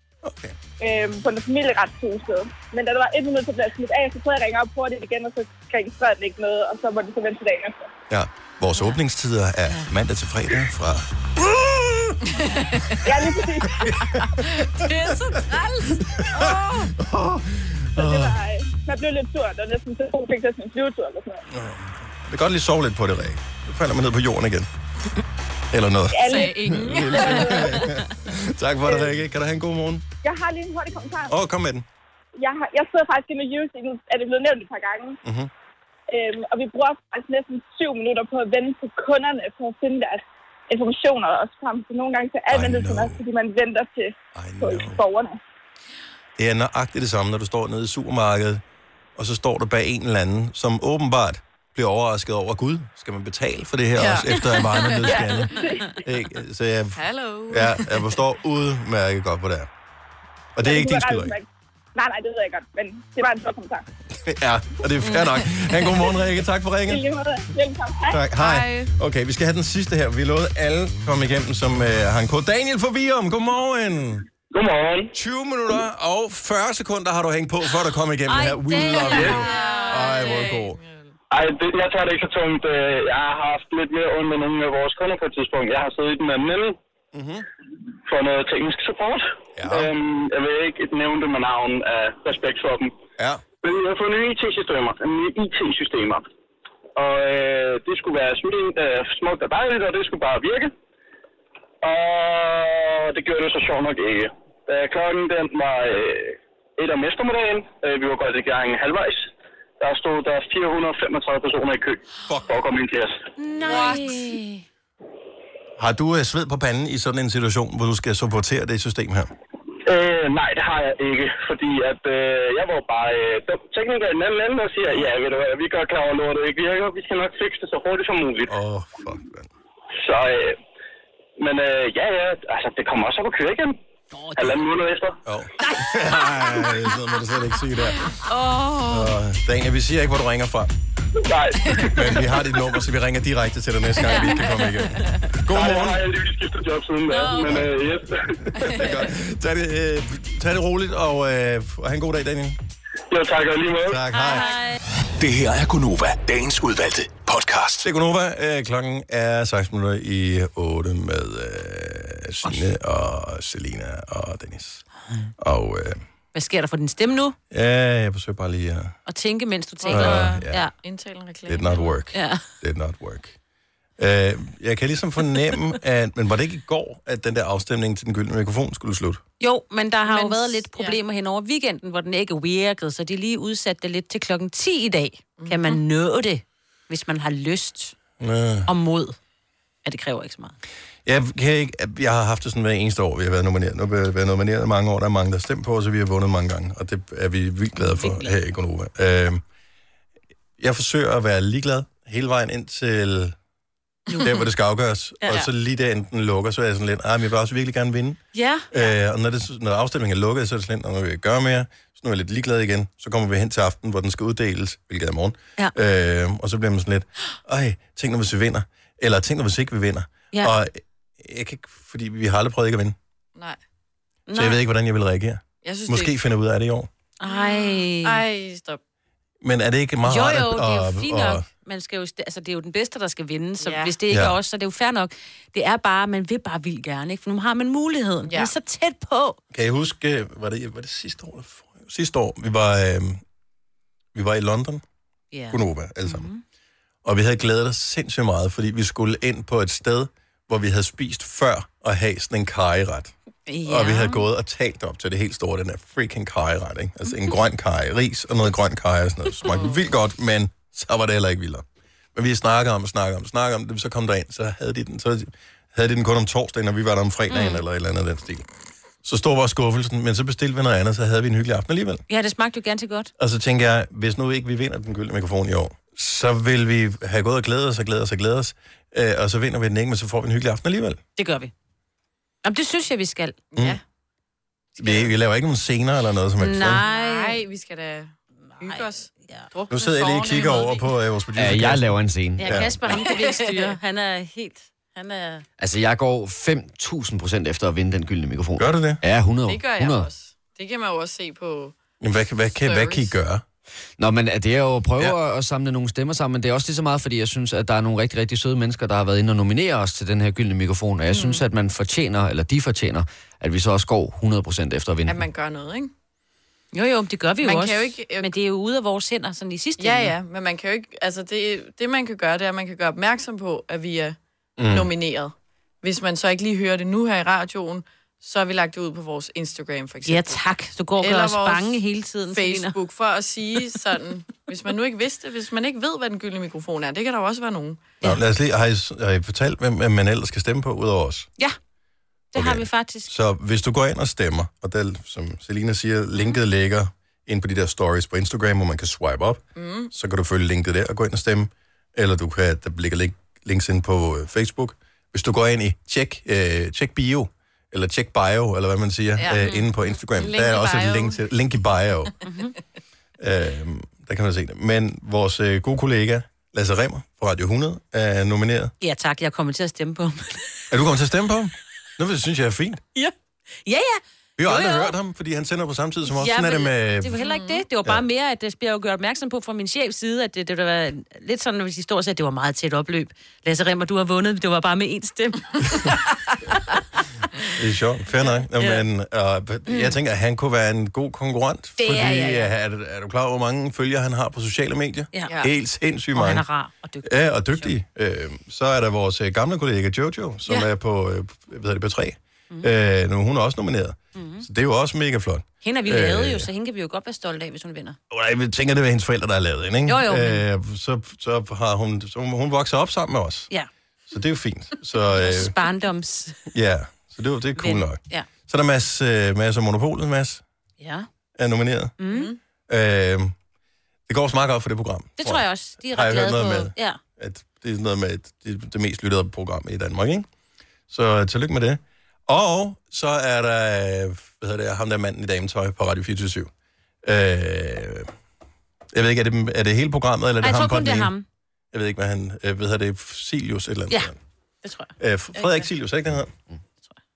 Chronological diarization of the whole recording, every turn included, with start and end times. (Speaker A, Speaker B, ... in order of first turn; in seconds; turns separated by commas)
Speaker A: 0.2-0.6, Speaker B: 0.8-7.9, Speaker A: 8.1-12.2, Speaker C: 12.4-13.0, Speaker B: 13.1-13.7, Speaker A: 13.1-14.3, Speaker C: 14.4-14.8, Speaker A: 16.0-18.4, Speaker C: 16.4-16.9, Speaker B: 17.9-21.4, Speaker A: 21.5-24.7, Speaker A: 25.7-30.0, Speaker B: 26.1-27.6, Speaker C: 26.3-27.8, Speaker B: 28.9-29.1, Speaker B: 30.2-31.3, Speaker A: 31.3-31.8, Speaker B: 32.4-35.2, Speaker A: 35.2-35.5, Speaker B: 36.1-45.4, Speaker A: 42.5-43.2, Speaker A: 44.3-45.0, Speaker A: 46.4-48.6, Speaker A: 49.1-59.7, Speaker C: 54.0-55.1, Speaker B: 55.1-55.8, Speaker C: 57.0-58.2, Speaker A: 60.5-61.3, Speaker B: 60.6-63.8, Speaker A: 64.2-67.0, Speaker B: 66.9-68.2, Speaker A: 68.1-74.2, Speaker C: 68.4-68.9, Speaker D: 74.5-75.1, Speaker A: 75.1-80.8, Speaker E: 78.3-80.5, Speaker C: 79.1-81.1, Speaker D: 81.3-86.8, Speaker A: 87.1-87.4, Speaker D: 88.1-92.9, Speaker A: 89.6-89.9, Speaker A: 93.2-93.4, Speaker D: 93.6-96.2, Speaker D: 97.0-100.7, Speaker D: 101.8-113.2, Speaker E: 113.4-114.6, Speaker C: 113.6-114.3, Speaker A: 115.8-119.3, Speaker D: 119.9-128.5, Speaker A: 128.5-129.5, Speaker D: 130.0-130.6, Speaker D: 131.4-133.8, Speaker E: 134.1-134.6, Speaker D: 134.3-135.2, Speaker A: 135.2-138.1, Speaker E: 135.6-136.6, Speaker E: 138.3-139.0, Speaker A: 138.9-140.7, Speaker D: 141.2-141.6, Speaker A: 141.8-146.0, Speaker E: 144.0-144.8, Speaker D: 145.5-148.2, Speaker E: 147.1-147.6, Speaker A: 147.3-147.8, Speaker A: 148.5-152.6, Speaker D: 153.1-154.0, Speaker A: 153.9-154.5, Speaker E: 154.1-154.8, Speaker F: 155.2-157.8, Speaker A: 157.8-164.8, Speaker A: 165.4-166.0, Speaker E: 166.3-167.3, Speaker A: 167.5-168.9, Speaker E: 169.1-170.7, Speaker C: 169.8-171.9, Speaker A: 169.9-170.6, Speaker A: 171.5-173.3, Speaker E: 172.1-172.4, Speaker A: 174.0-179.2, Speaker E: 179.4-187.9, Speaker C: 180.0-181.0, Speaker C: 185.4-185.8, Speaker A: 188.2-188.7, Speaker E: 188.7-189.2, Speaker E: 189.8-190.5, Speaker A: 191.1-199.4, Speaker E: 197.8-198.3, Speaker A: 200.6-203.3, Speaker E: 204.1-204.4, Speaker A: 204.2-208.2, Speaker E: 205.2-205.5, Speaker E: 208.3-208.9, Speaker A: 208.7-222.9, Speaker E: 224.3-224.6, Speaker A: 224.3-226.9, Speaker C: 225.6-226.1, Speaker E: 227.2-228.2, Speaker C: 227.2-228.8, Speaker A: 229.4-231.4, Speaker E: 230.0-239.4, Speaker C: 233.6-233.9, Speaker A: 234.1-234.3, Speaker C: 238.3-238.5, Speaker A: 239.5-243.2, Speaker A: 244.1-244.8, Speaker E: 245.3-246.4, Speaker A: 245.5-246.3, Speaker A: 247.0-253.1, Speaker E: 253.5-254.2, Speaker A: 253.7-268.4, Speaker E: 267.3-267.6, Speaker A: 269.0-272.0, Speaker E: 272.1-273.1, Speaker A: 273.2-281.0, Speaker E: 281.1-281.5, Speaker E: 282.4-283.4, Speaker C: 283.5-283.8, Speaker A: 284.8-286.8, Speaker E: 286.4-287.4, Speaker C: 286.9-290.8, Speaker E: 288.6-289.5, Speaker A: 289.7-292.7, Speaker G: 291.3-292.7, Speaker E: 292.4-295.4, Speaker C: 292.9-293.7, Speaker G: 295.6-300.1, Speaker A: 298.6-299.0, Speaker C: 299.4-301.8, Speaker A: 302.0-303.4, Speaker C: 302.6-303.1, Speaker G: 304.0-315.2, Speaker C: 311.1-311.4, Speaker C: 315.1-315.9, Speaker E: 316.7-320.1, Speaker C: 317.4-318.3, Speaker C: 319.8-324.1, Speaker A: 324.6-324.9, Speaker C: 324.7-330.4, Speaker E: 330.1-332.7, Speaker C: 331.0-337.9, Speaker A: 338.0-341.3, Speaker E: 342.3-343.1, Speaker A: 342.3-362.1, Speaker C: 349.6-349.9, Speaker C: 359.2-359.4, Speaker E: 359.4-359.6, Speaker C: 360.1-361.2, Speaker E: 362.2-362.5, Speaker A: 363.2-368.7, Speaker E: 368.8-370.4, Speaker A: 370.7-372.8, Speaker E: 373.6-374.9, Speaker A: 374.4-377.2, Speaker E: 376.1-385.8, Speaker C: 377.2-377.6, Speaker A: 387.6-396.4, Speaker E: 388.5-388.8, Speaker E: 389.7-389.9, Speaker E: 391.8-392.5, Speaker C: 395.3-395.5, Speaker E: 396.1-397.7, Speaker A: 397.0-406.5, Speaker E: 404.1-404.4, Speaker E: 405.6-408.0, Speaker A: 408.1-413.5, Speaker E: 409.9-410.4, Speaker A: 414.1-415.5, Speaker E: 415.1-416.4, Speaker A: 416.5-420.4, Speaker E: 417.6-418.3, Speaker E: 420.8-421.1, Speaker A: 421.4-421.9, Speaker E: 422.0-422.3, Speaker C: 422.1-422.4, Speaker A: 422.7-423.3, Speaker A: 424.1-430.3, Speaker E: 425.2-427.0, Speaker A: 430.9-436.5, Speaker A: 437.0-438.1, Speaker A: 438.9-441.1, Speaker E: 440.4-441.2, Speaker A: 441.7-444.2, Speaker E: 444.6-445.7, Speaker A: 445.0-446.3